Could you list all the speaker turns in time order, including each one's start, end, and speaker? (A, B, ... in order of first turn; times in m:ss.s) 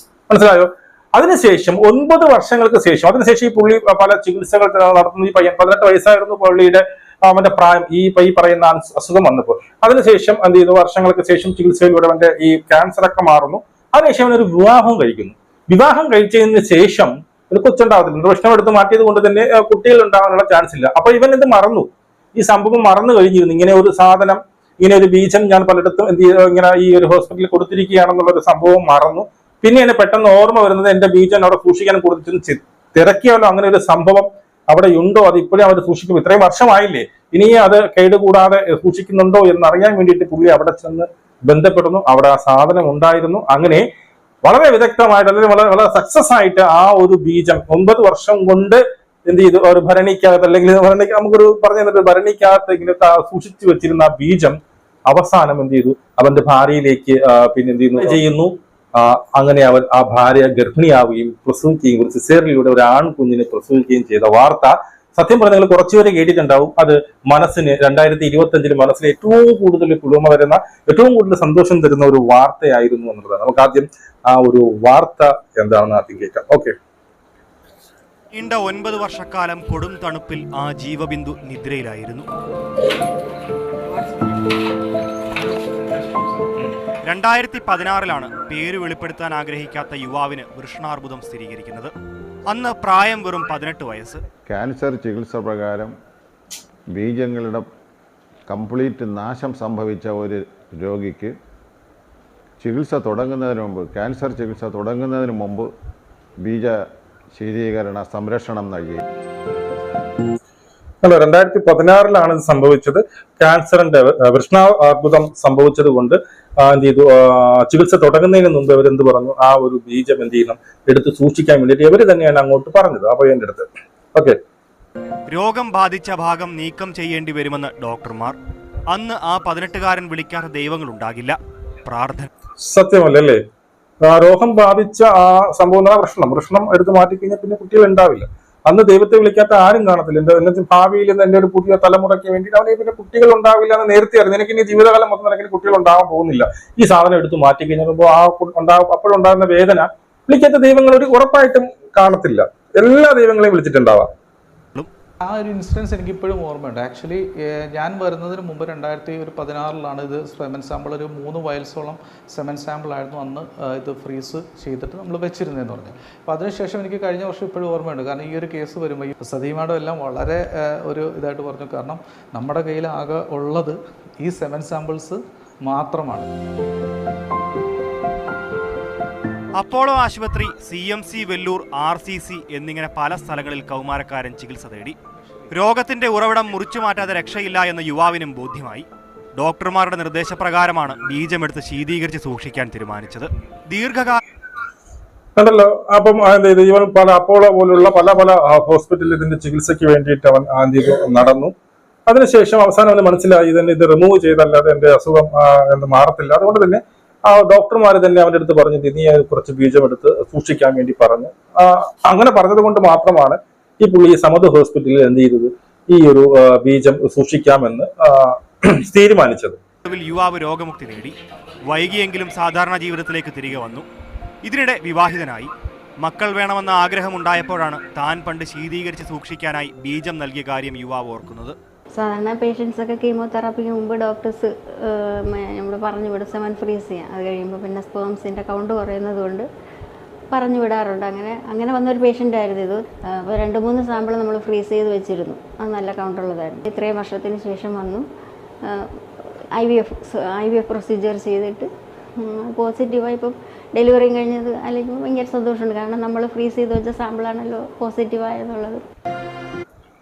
0:00.3-0:43.9 A
0:44.4-1:16.7 A
1:18.3-1:22.3 B
1:27.0-1:31.9 B
1:32.5-1:34.2 B
1:34.4-1:35.9 C
1:36.9-1:37.7 C
1:38.5-1:41.4 C
1:42.6-1:45.7 C
1:46.4-1:49.0 C
1:51.0-2:04.4 A
2:05.3-2:08.4 B
2:08.9-2:12.3 B
2:12.6-2:13.4 A
2:14.0-2:34.1 A
2:35.2-2:56.3 D
2:59.6-3:05.0 B
3:05.5-3:08.8 B
3:09.4-3:14.2 B
3:15.4-3:21.5 A
3:22.0-3:39.6 A
3:39.8-3:41.1 B
3:41.7-3:43.8 B
3:44.4-3:45.5 B
3:46.0-3:51.6 B
3:51.9-3:59.5 E
4:00.3-4:08.0 E
4:08.6-4:08.9 E
4:09.5-4:18.8 E